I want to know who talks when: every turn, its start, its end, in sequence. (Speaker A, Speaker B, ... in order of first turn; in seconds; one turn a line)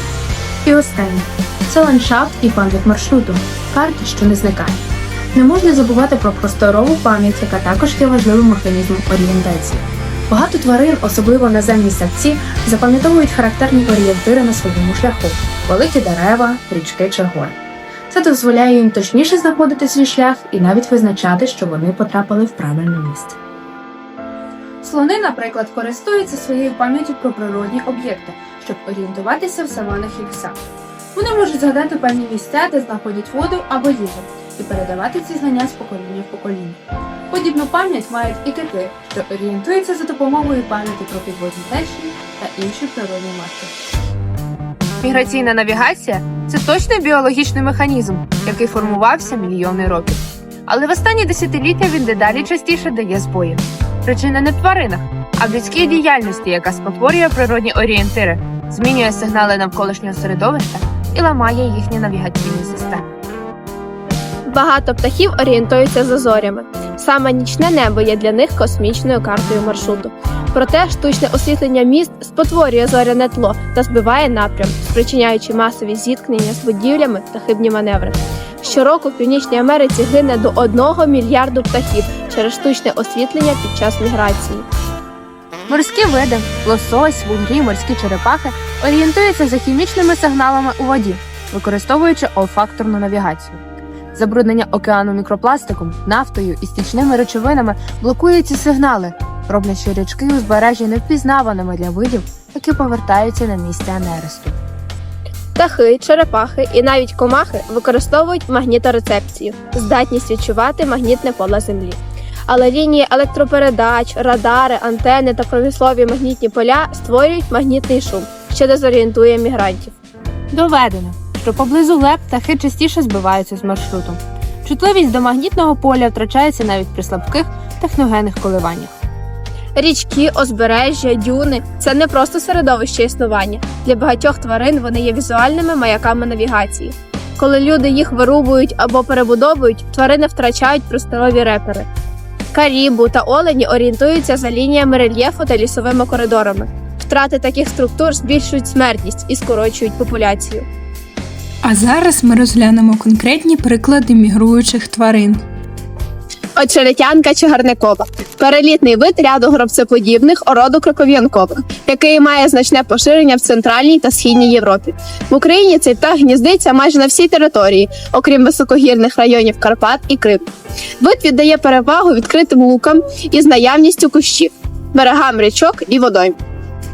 Speaker A: 0.7-4.8
Speaker A: 5.3-17.6
Speaker A: 18.1-23.4
Speaker A: 24.8-30.6
Speaker A: 31.1-36.8
Speaker A: 37.3-43.7
Speaker A: 45.0-63.1
Speaker B: 64.5-84.7
Speaker A: 85.7-93.6
Speaker A: 94.2-104.6
Speaker B: 105.6-119.9
Speaker A: 120.5-128.9
Speaker B: 129.8-141.9
Speaker B: 142.5-150.7
Speaker C: 151.6-155.4
Speaker B: 156.6-170.4
Speaker B: 171.0-176.4